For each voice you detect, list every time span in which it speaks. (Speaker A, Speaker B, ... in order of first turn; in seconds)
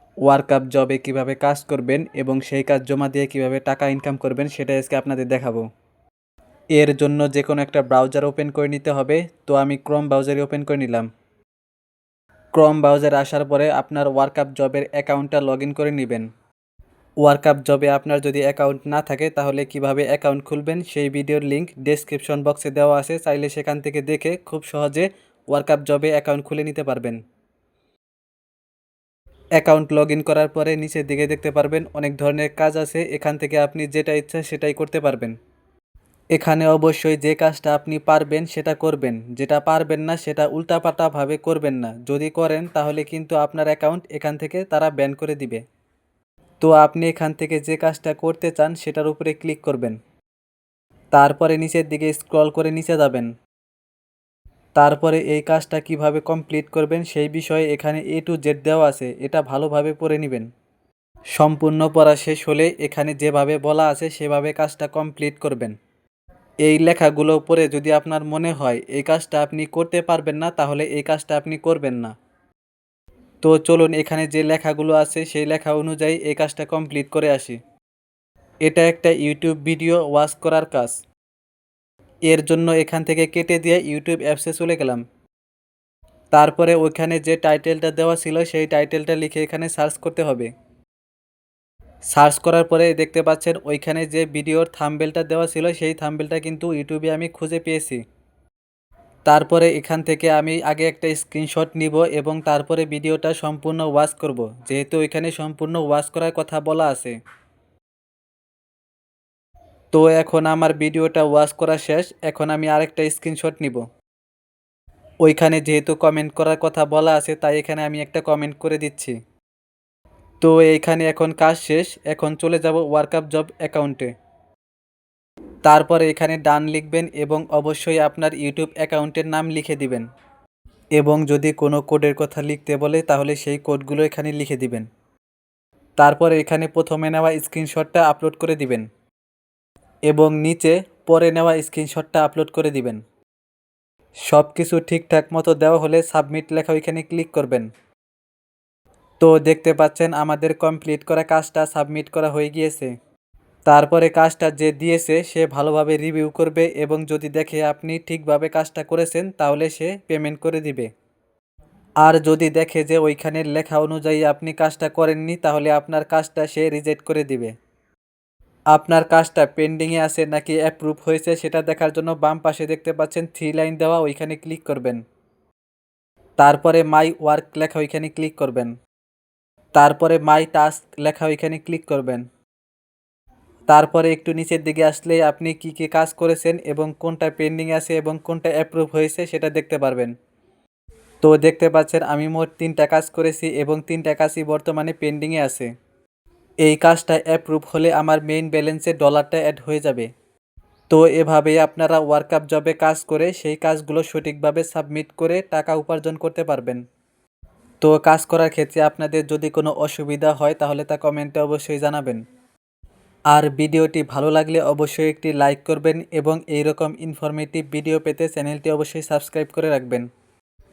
Speaker A: 0.2-5.6, 6.7-11.1, 12.5-16.3, 17.2-27.2, 29.6-35.4, 36.3-45.6, 46.6-50.0, 51.1-53.3, 54.8-60.5, 61.4-65.8, 66.6-72.1, 73.4-77.6, 78.6-81.0, 82.2-85.0, 86.3-90.5, 92.1-98.0, 99.3-107.2, 109.9-113.8, 115.2-119.2, 120.4-124.1, 125.6-130.1, 130.9-134.9, 136.0-138.9, 140.1-143.0, 144.2-147.7, 149.2-152.9, 153.7-160.9, 162.0-167.5, 168.7-175.0, 176.4-178.7, 179.8-182.2, 183.7-190.1, 191.2-195.7, 196.6-200.1, 200.9-206.8, 207.8-212.2, 213.3-220.1